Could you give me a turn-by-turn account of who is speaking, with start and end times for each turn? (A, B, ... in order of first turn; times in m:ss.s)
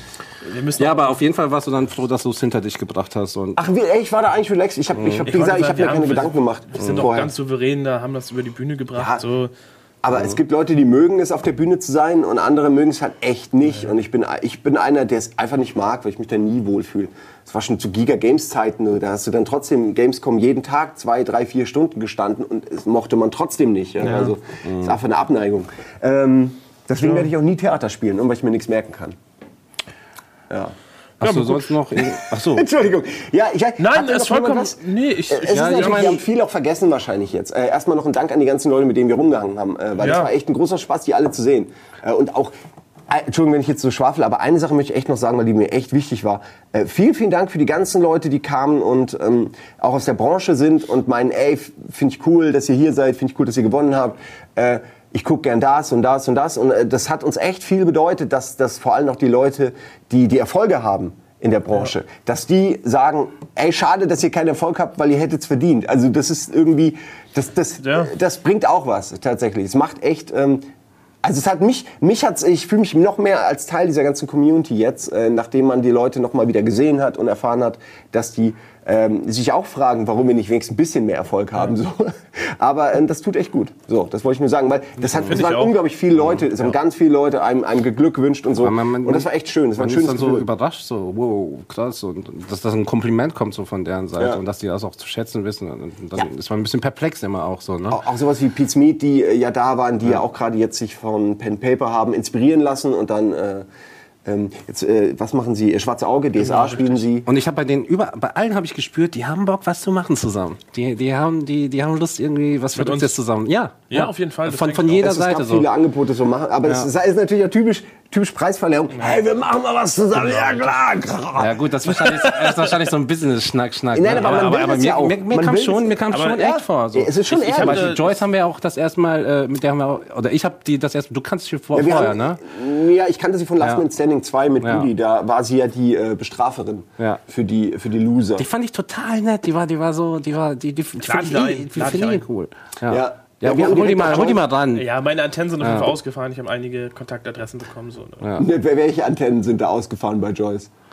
0:00.4-0:01.2 A
0:00.8-0:03.6 B
0:03.6-0:07.3 C
0:04.9-0:05.3 B
0:05.3-0:09.5 A
0:06.8-0:07.1 B
0:09.0-0:09.2 C
0:10.0-0:29.2 C
0:24.1-0:25.0 B
0:27.0-0:27.3 A
0:31.2-0:31.7 A
0:31.2-0:32.7 B
0:32.0-0:42.5 C
0:33.8-0:36.2 A
0:35.5-0:36.2 B
0:40.0-0:40.3 A
0:43.1-1:10.7 C
1:07.8-1:08.1 A
1:11.2-1:30.5 C
1:25.0-1:25.4 B
1:25.3-1:25.8 A
1:26.2-1:26.5 B
1:28.6-1:38.0 B
1:37.9-1:43.7 C
1:44.3-1:47.3 C
1:46.4-1:47.0 A
1:47.3-1:55.7 B
1:52.7-1:53.1 A
1:53.9-1:55.0 A
1:55.0-2:02.2 C
1:56.6-1:56.9 B
1:58.9-1:59.2 A
2:01.4-2:12.4 B
2:02.0-2:02.8 A
2:03.9-2:07.9 C
2:06.1-2:06.4 A
2:07.3-2:08.2 A
2:11.7-2:18.5 C
2:14.6-2:14.9 B
2:18.4-2:24.9 B
2:21.0-2:22.2 A
2:22.9-2:24.4 C
2:24.7-2:28.3 A
2:25.6-2:25.9 B
2:28.4-2:30.7 C